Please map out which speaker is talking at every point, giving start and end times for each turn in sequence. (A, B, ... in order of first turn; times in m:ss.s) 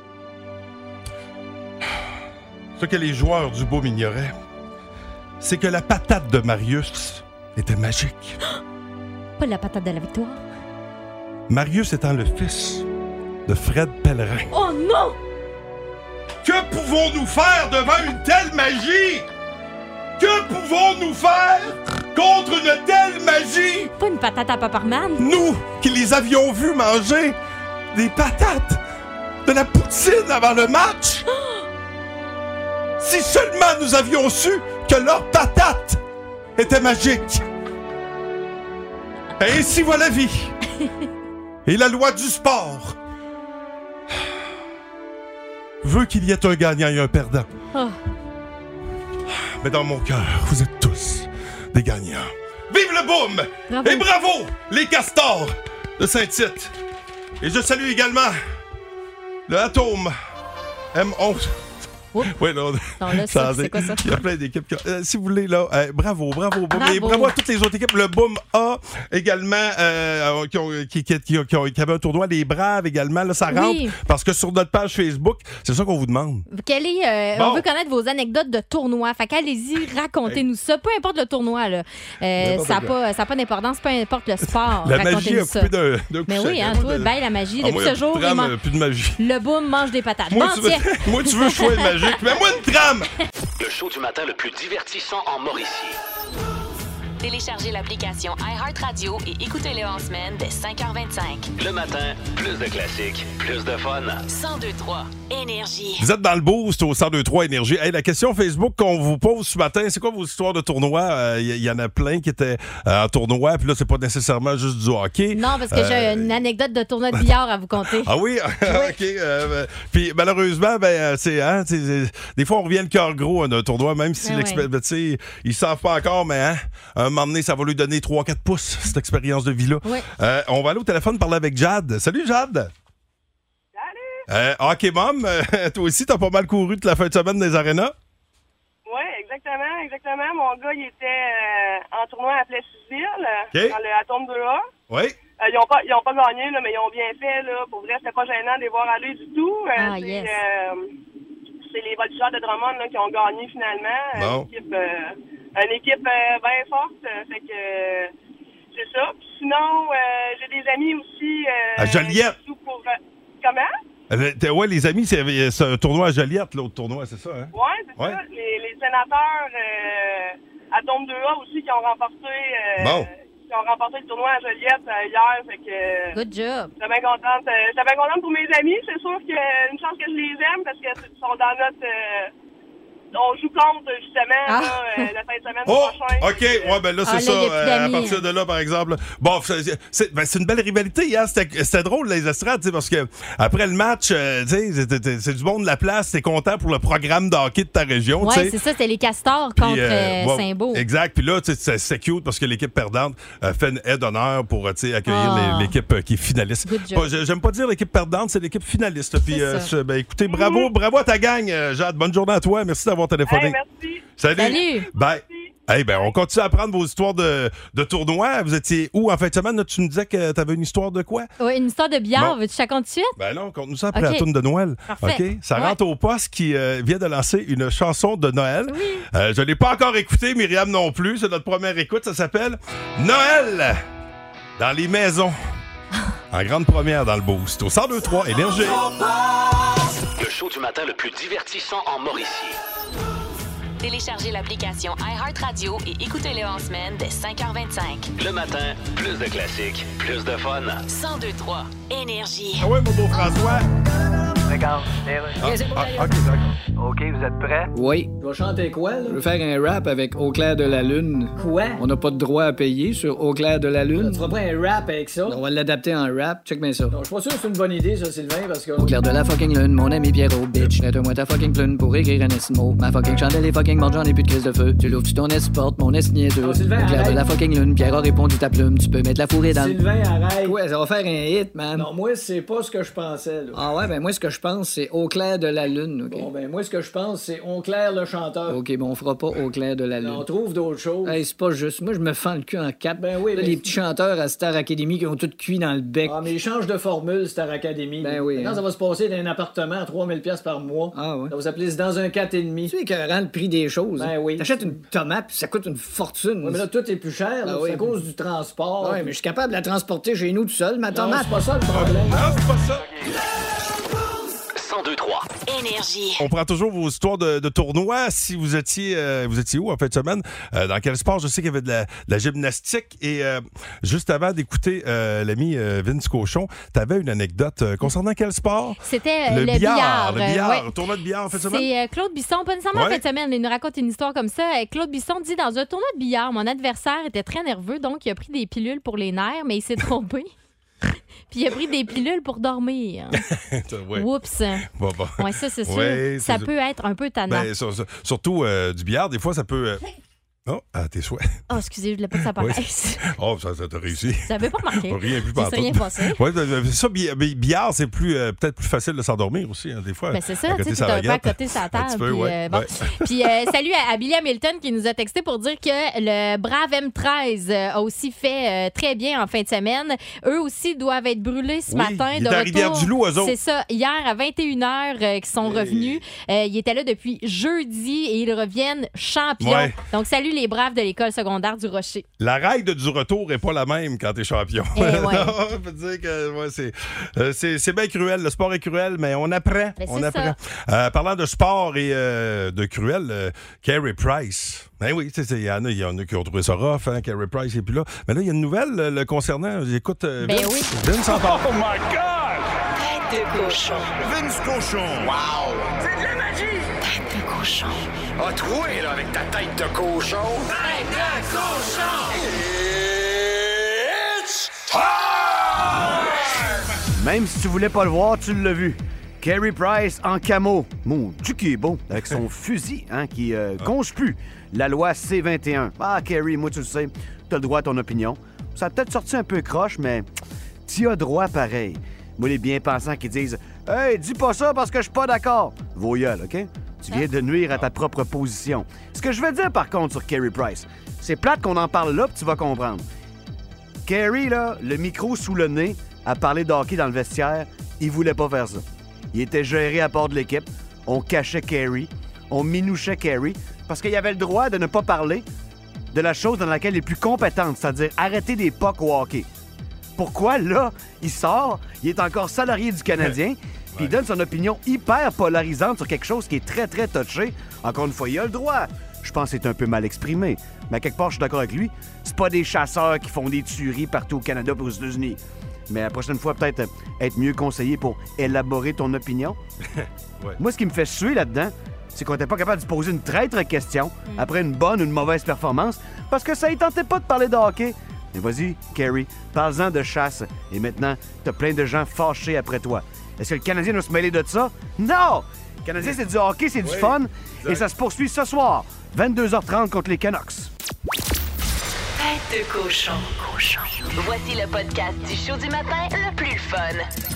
0:02.8-0:04.4 A
0:05.4-0:08.4 A
0:09.4-0:10.4 B
0:11.5-0:12.9 A
0:13.5-0:14.5 A
0:14.5-0:15.2 B
0:16.4-0:19.3 A
0:20.2-0:23.9 A
0:24.0-0:25.3 B
0:25.2-0:27.4 A
0:27.9-0:28.8 A
0:29.4-0:31.3 A
0:33.0-0:36.0 A
0:36.6-0:37.4 A
0:39.4-0:40.6 A
0:41.6-0:43.0 A
0:45.8-0:47.5 A
0:49.3-0:56.8 A
0:53.7-0:54.1 B
0:57.4-0:58.4 A
0:59.5-1:00.1 A
1:00.9-1:01.5 A
1:02.3-1:16.5 A
1:03.0-1:04.0 B
1:06.7-1:07.3 B
1:13.5-1:14.0 B
1:16.5-1:25.7 B
1:17.4-1:17.7 A
1:22.4-1:23.0 A
1:24.8-1:29.2 A
1:26.3-1:28.5 B
1:29.2-1:31.9 B
1:30.3-1:33.1 A
1:33.6-1:36.0 C
1:37.2-1:41.5 D
1:41.6-1:44.2 C
1:44.3-1:46.1 D
1:46.0-1:56.4 A
1:55.3-1:58.1 B
1:57.9-2:12.7 A
1:58.7-1:58.9 B
2:04.2-2:04.7 B
2:13.8-2:14.2 E
2:14.3-2:17.9 A
2:18.9-2:24.7 E
2:23.5-2:23.8 A
2:24.9-2:25.2 A
2:25.4-2:30.9 E
2:29.8-2:30.4 B
2:31.7-2:38.1 E
2:34.1-2:34.5 A
2:38.7-2:43.7 E
2:41.8-2:42.4 A
2:44.1-2:48.2 A
2:47.5-2:56.2 E
2:52.8-2:53.1 A
2:56.1-2:56.7 B
2:56.8-3:02.3 E
3:03.1-3:06.8 E
3:04.5-3:05.1 B
3:05.7-3:18.6 A
3:07.0-3:08.2 B
3:18.2-3:20.8 B
3:19.6-3:33.6 A
3:25.1-3:25.8 B
3:26.6-3:27.1 B
3:29.2-3:29.7 B
3:30.3-3:30.7 E
3:33.3-3:36.1 E
3:34.2-3:41.3 A
3:34.4-3:34.9 B
3:41.4-3:43.2 B
3:43.2-3:53.8 A
3:43.9-3:44.3 B
3:44.9-3:45.8 B
3:48.7-3:49.1 B
3:54.6-3:55.4 A
3:56.3-3:58.9 A
4:00.2-4:02.6 C
4:03.8-4:08.1 D
4:08.2-4:10.8 C
4:10.9-4:12.7 D
4:12.6-4:13.7 A
4:14.5-4:16.1 F
4:15.4-4:16.6 A
4:15.4-4:15.9 G
4:16.8-4:17.7 F
4:17.7-4:18.1 G
4:18.2-4:19.2 H
4:19.1-4:24.3 G
4:21.4-4:21.8 H
4:24.0-4:25.4 H
4:25.3-4:27.0 G
4:26.9-4:29.0 H
4:28.8-4:39.8 G
4:36.4-4:37.2 H
4:39.5-4:40.6 H
4:40.4-4:41.9 G
4:41.7-4:43.7 H
4:43.5-4:46.3 G
4:46.1-4:48.6 H
4:48.5-4:50.3 G
4:50.0-4:51.2 H
4:51.0-4:56.2 G
4:53.0-4:53.8 H
4:56.0-5:02.8 H
4:58.0-4:58.6 G
5:00.9-5:01.3 G
5:02.7-5:06.6 G
5:04.0-5:04.8 H
5:06.4-5:09.2 H
5:07.4-5:08.0 G
5:08.8-5:11.5 G
5:10.9-5:12.2 H
5:11.7-5:13.0 A
5:14.6-5:15.4 C
5:15.4-5:16.2 D
5:16.2-5:31.7 A
5:28.8-5:30.7 B
5:31.3-5:40.3 B
5:32.7-5:33.0 A
5:41.3-5:43.2 B
5:43.2-5:44.1 A
5:43.9-5:44.6 B
5:44.6-5:46.5 A
5:45.2-5:47.5 B
5:47.3-5:49.8 A
5:50.5-5:51.4 A
5:51.5-5:53.1 B
5:52.2-6:03.3 A
5:54.1-5:56.2 B
6:00.1-6:22.1 B
6:11.7-6:13.4 A
6:15.4-6:16.0 A
6:19.4-6:19.8 A
6:22.2-6:41.6 A
6:24.8-6:25.4 B
6:29.8-6:30.3 B
6:40.2-6:40.7 B
6:42.8-6:43.9 D
6:43.9-6:45.8 I
6:46.9-6:47.8 D
6:48.2-6:53.1 I
6:56.9-7:10.1 J
7:10.7-7:22.8 J
7:23.8-7:35.2 J
7:35.9-7:39.3 J
7:40.0-7:59.4 J
7:59.7-8:00.4 A
8:00.4-8:20.5 J
8:16.6-8:17.7 A
8:22.0-8:26.9 D